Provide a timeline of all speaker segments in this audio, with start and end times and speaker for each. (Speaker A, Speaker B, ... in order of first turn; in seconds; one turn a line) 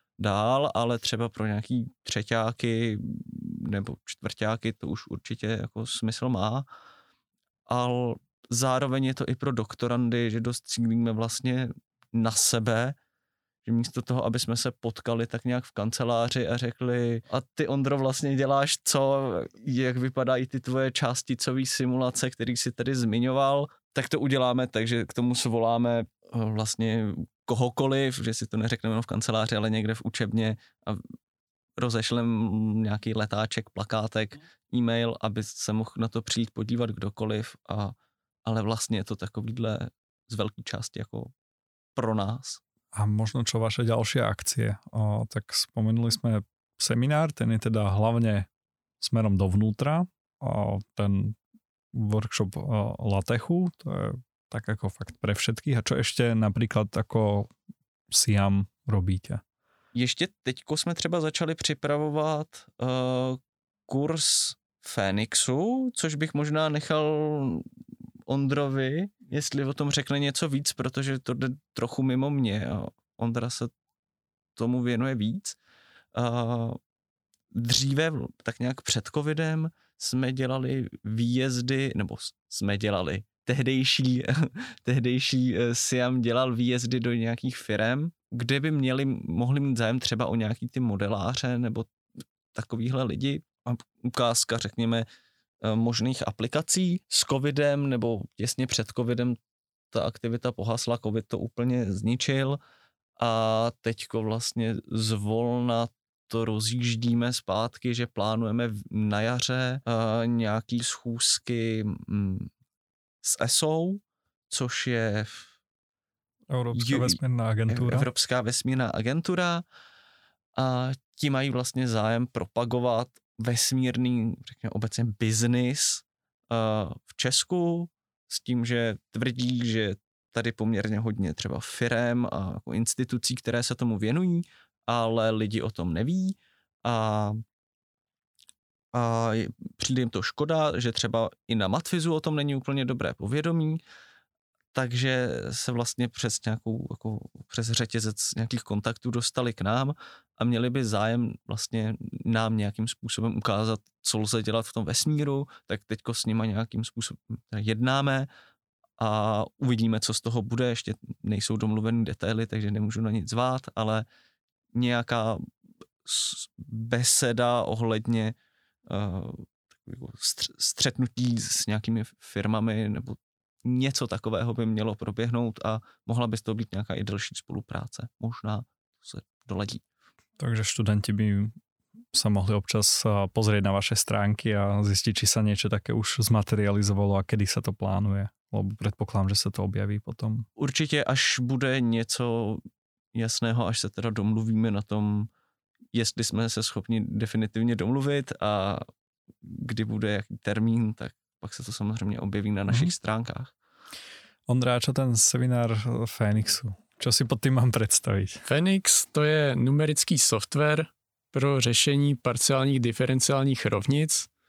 Speaker A: 0.2-6.7
Speaker A: 7.7-12.9
Speaker A: 13.6-31.0
Speaker A: 31.8-41.3
Speaker A: 41.9-42.6
Speaker B: 42.9-48.5
Speaker B: 49.0-51.4
Speaker B: 51.9-57.5
Speaker B: 58.1-59.4
Speaker A: 59.9-67.6
Speaker A: 68.3-73.7
Speaker A: 74.5-75.6
Speaker A: 76.1-76.8
Speaker A: 77.5-91.9
Speaker A: 92.5-95.0
Speaker A: 95.6-99.4
Speaker A: 99.9-102.6
Speaker A: 103.2-112.5
Speaker A: 113.2-115.4
Speaker B: 116.5-118.1
Speaker A: 116.7-119.6
Speaker A: 120.6-137.4
Speaker A: 138.9-143.8
Speaker A: 144.7-158.3
Speaker A: 159.0-164.0
Speaker A: 164.7-165.4
Speaker A: 166.0-168.3
Speaker A: 168.9-179.8
Speaker B: 180.4-181.5
Speaker B: 182.1-190.5
Speaker A: 190.6-192.6
Speaker A: 193.1-195.3
Speaker A: 195.9-198.8
Speaker A: 199.4-203.5
Speaker B: 204.5-208.4
Speaker C: 208.4-214.3